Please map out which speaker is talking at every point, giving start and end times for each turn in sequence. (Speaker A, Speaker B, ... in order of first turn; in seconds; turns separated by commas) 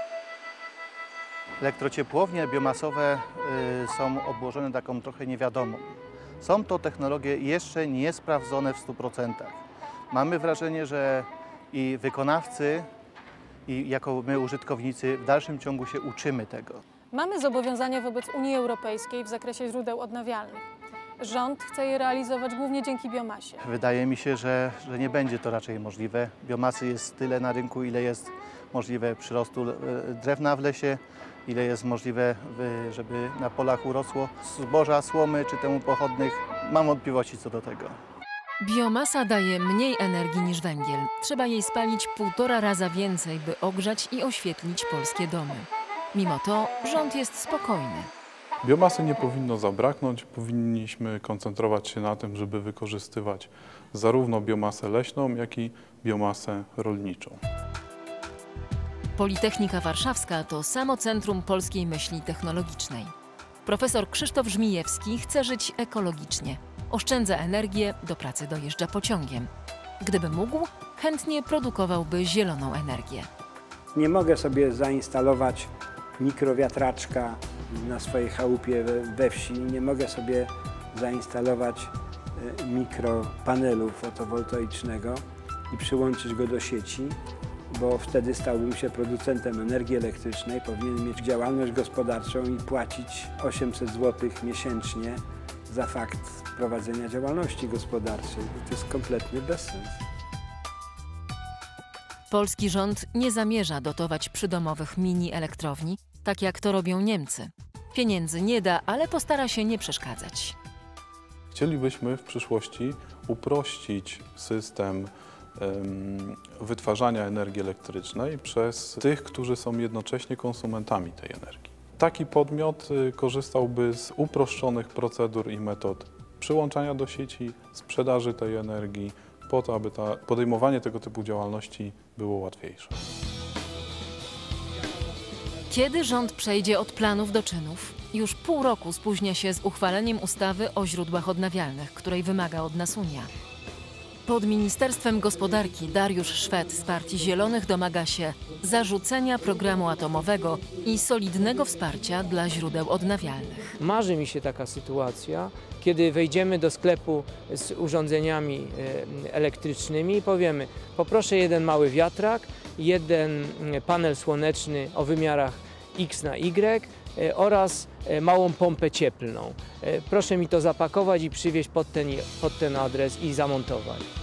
Speaker A: 1.6-12.9, Speaker A: 13.7-16.8, Speaker B: 17.1-20.6, Speaker B: 21.2-23.6, Speaker A: 23.6-38.0, Speaker C: 38.6-48.1, Speaker D: 48.6-57.4, Speaker C: 59.2-63.1, Speaker C: 63.6-69.5, Speaker C: 70.0-73.3, Speaker E: 73.9-87.2, Speaker E: 87.7-100.0, Speaker C: 102.3-110.5, Speaker D: 111.5-132.9, Speaker C: 135.7-143.3, Speaker C: 144.3-153.8, Speaker F: 153.8-174.1